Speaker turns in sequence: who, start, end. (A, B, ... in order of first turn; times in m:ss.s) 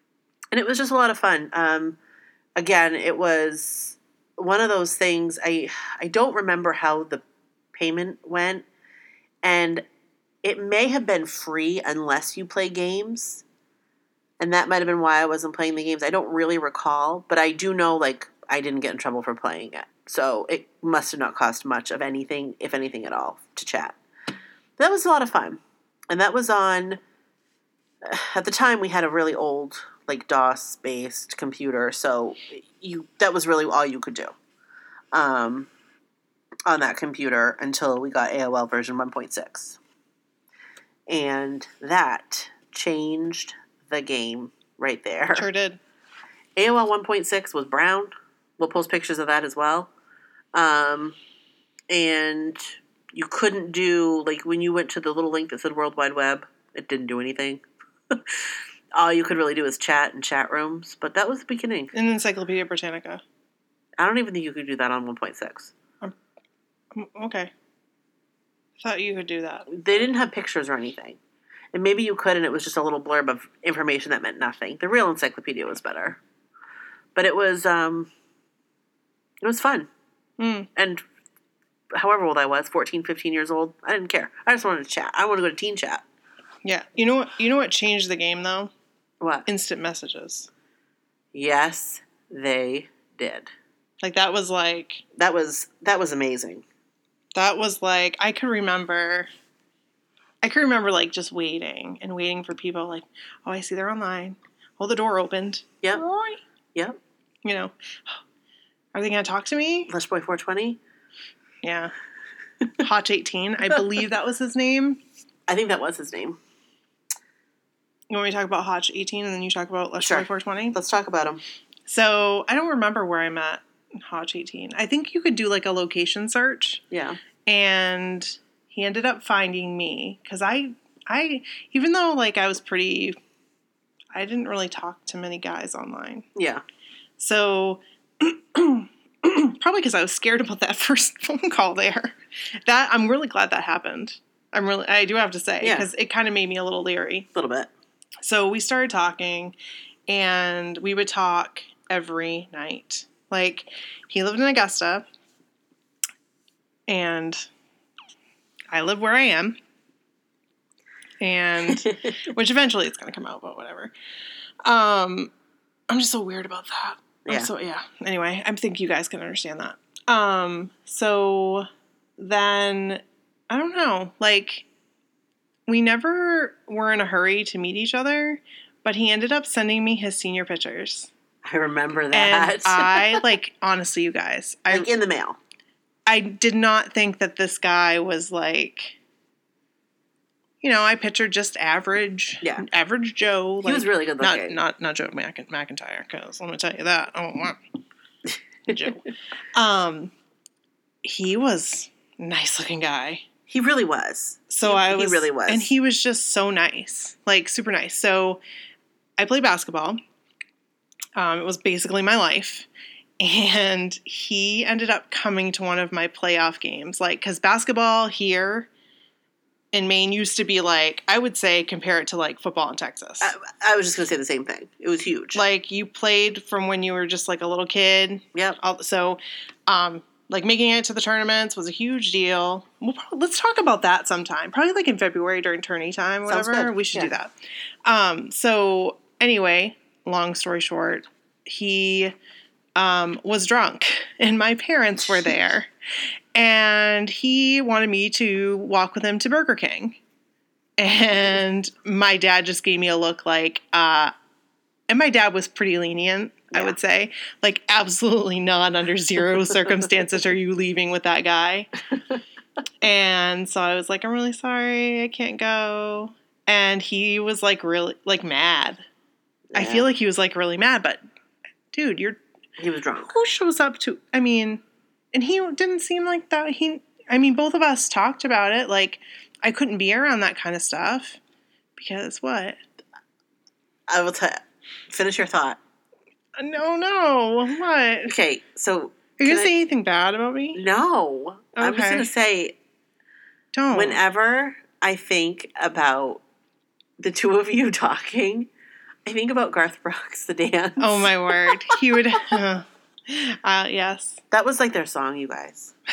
0:00.5-0:02.0 A
0:02.6-0:07.2 A
0:07.7-0:08.7 A
0:09.4-0:09.8 A
0:10.4-0:13.4 A
0:14.4-0:24.0 A
0:24.8-0:27.0 A
0:28.0-0:34.4 A
0:35.1-0:35.7 A
0:36.7-0:39.8 A
0:41.1-0:45.5 A
0:45.4-0:45.8 B
0:46.6-0:49.9 A
0:50.5-0:51.2 A
0:51.9-1:01.9 A
1:01.9-1:03.2 B
1:04.0-1:05.7 A
1:06.9-1:07.5 B
1:08.8-1:09.8 B
1:09.7-1:11.2 A
1:11.7-1:16.2 A
1:17.2-1:18.1 A
1:19.4-1:19.9 A
1:20.4-1:20.7 B
1:20.8-1:21.0 A
1:21.9-1:26.0 A
1:26.6-1:28.7 B
1:29.2-1:29.5 A
1:29.5-1:30.5 B
1:31.3-1:33.5 A
1:34.0-1:35.0 B
1:35.2-1:36.6 A
1:37.4-1:39.3 B
1:40.4-1:46.4 B
1:47.4-1:48.2 B
1:48.9-1:49.9 B
1:49.9-1:50.8 A
1:51.6-1:51.9 B
1:52.8-1:55.0 B
1:55.5-1:56.4 A
1:58.1-2:00.8 B
2:00.0-2:01.4 A
2:01.9-2:06.8 B
2:06.9-2:07.2 A
2:07.5-2:13.2 B
2:14.1-2:16.2 B
2:16.4-2:16.6 A
2:17.2-2:27.3 B
2:25.6-2:25.9 A
2:27.3-2:27.7 A
2:28.2-2:29.5 B
2:30.1-2:35.0 B
2:36.9-2:37.5 B
2:38.7-2:39.6 B
2:41.2-2:43.9 B
2:41.7-2:42.1 A
2:44.6-2:45.3 B
2:45.9-2:51.7 B
2:52.2-2:54.7 B
2:55.7-3:01.1 B
3:01.4-3:03.3 A
3:02.1-3:04.9 B
3:04.7-3:05.4 A
3:06.1-3:09.0 B
3:10.6-3:17.6 B
3:13.6-3:14.6 A
3:18.7-3:19.0 B
3:18.7-3:18.9 A
3:19.6-3:20.1 B
3:21.0-3:23.2 B
3:23.5-3:25.7 A
3:24.5-3:28.4 B
3:29.2-3:30.0 B
3:31.2-3:32.7 B
3:33.2-3:38.7 B
3:39.7-3:43.3 B
3:43.2-3:45.4 A
3:45.4-3:57.3 B
3:56.3-3:57.1 A
3:57.9-4:02.2 B
4:02.8-4:05.7 B
4:06.4-4:10.0 B
4:10.8-4:14.1 B
4:14.9-4:21.7 B
4:16.5-4:16.8 A
4:22.8-4:28.8 B
4:29.5-4:29.9 A
4:29.5-4:31.0 B
4:31.7-4:32.2 B
4:32.6-4:33.1 A
4:33.1-4:34.6 B
4:35.1-4:41.2 B
4:41.8-4:42.6 B
4:43.9-4:45.6 A
4:46.4-4:48.1 B
4:48.1-4:49.5 A
4:49.2-4:50.6 B
4:50.6-4:52.6 A
4:51.6-4:52.1 B
4:53.5-4:54.0 B
4:53.7-4:56.2 A
4:57.0-4:58.5 A
4:59.0-5:01.5 A
5:00.8-5:04.2 B
5:04.3-5:05.7 A